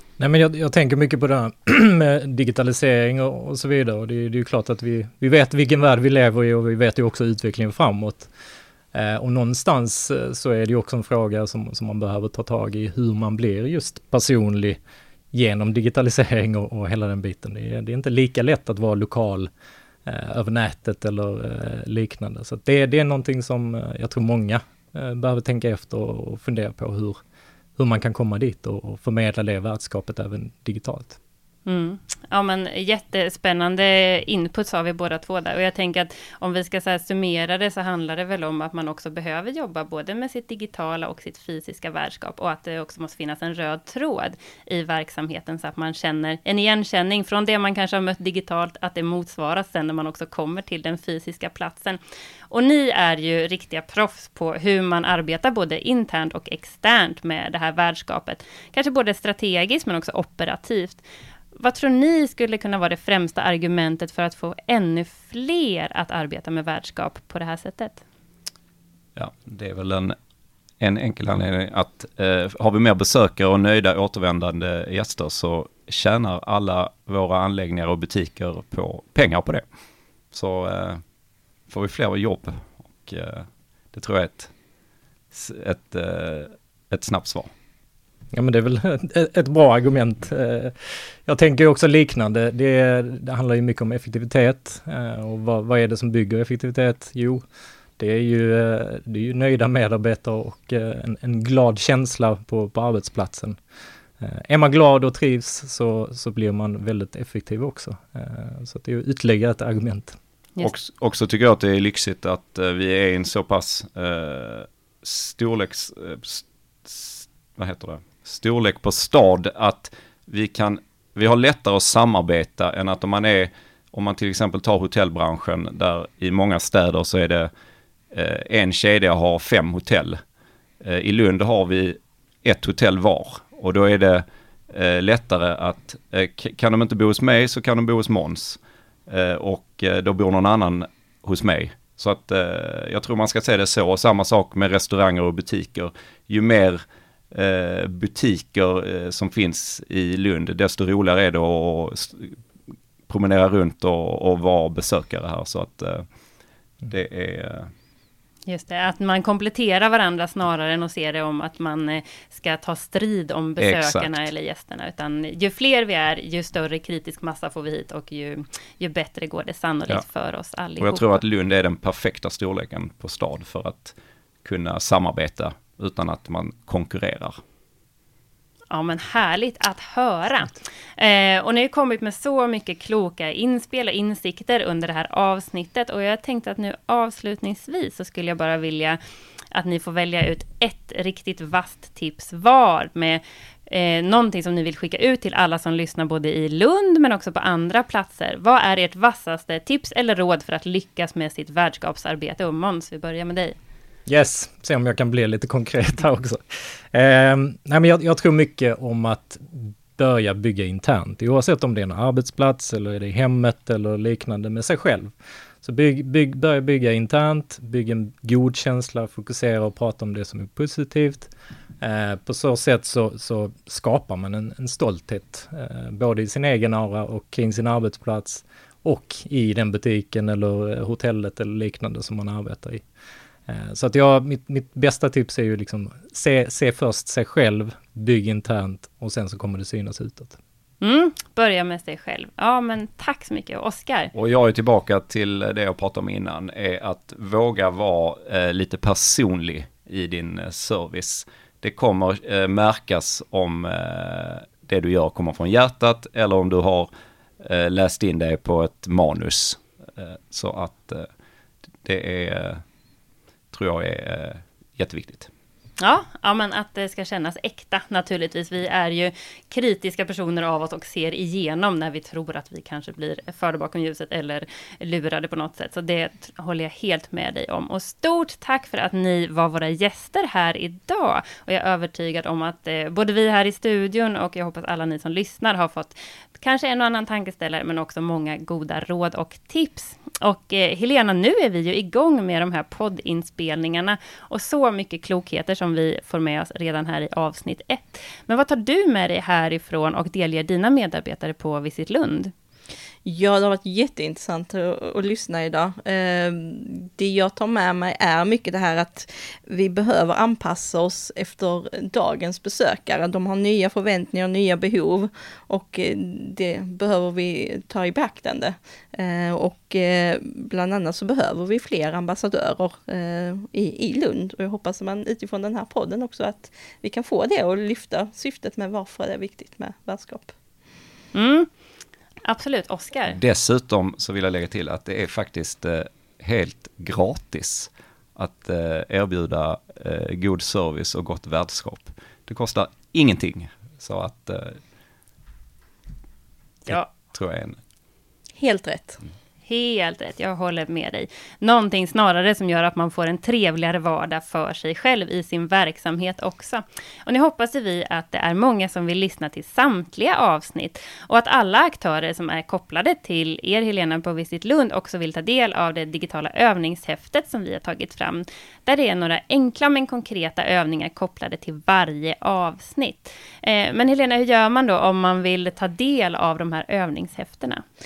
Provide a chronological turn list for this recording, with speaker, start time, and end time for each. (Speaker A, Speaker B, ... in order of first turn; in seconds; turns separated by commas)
Speaker A: 0.2-8.3, Speaker A: 8.9-14.8, Speaker A: 15.3-19.5, Speaker A: 20.1-27.2, Speaker A: 27.8-31.2, Speaker B: 31.7-52.0, Speaker B: 52.5-61.0, Speaker B: 61.6-68.0, Speaker C: 69.2-70.2, Speaker C: 70.8-79.6, Speaker C: 80.3-81.0, Speaker C: 81.7-84.5, Speaker C: 85.3-87.5, Speaker A: 88.3-90.7, Speaker A: 91.2-97.4, Speaker A: 98.0-103.6, Speaker A: 104.2-110.2, Speaker C: 110.6-127.5, Speaker C: 128.1-130.2, Speaker C: 130.8-152.4, Speaker C: 153.1-156.1, Speaker C: 156.9-157.7, Speaker B: 158.5-171.2, Speaker C: 163.6-164.3, Speaker C: 170.8-177.4, Speaker B: 178.7-189.0, Speaker B: 189.5-203.6, Speaker A: 204.1-206.4, Speaker A: 206.9-215.1, Speaker A: 215.6-232.8, Speaker A: 233.5-240.4, Speaker B: 240.8-244.1, Speaker C: 244.1-256.9, Speaker C: 257.4-261.1, Speaker C: 261.8-262.6, Speaker C: 263.5-265.3, Speaker B: 265.8-302.3, Speaker D: 303.1-330.3, Speaker B: 331.1-331.5, Speaker B: 332.2-333.2, Speaker C: 333.1-344.6, Speaker C: 346.7-347.6, Speaker D: 348.4-349.0, Speaker B: 349.5-377.6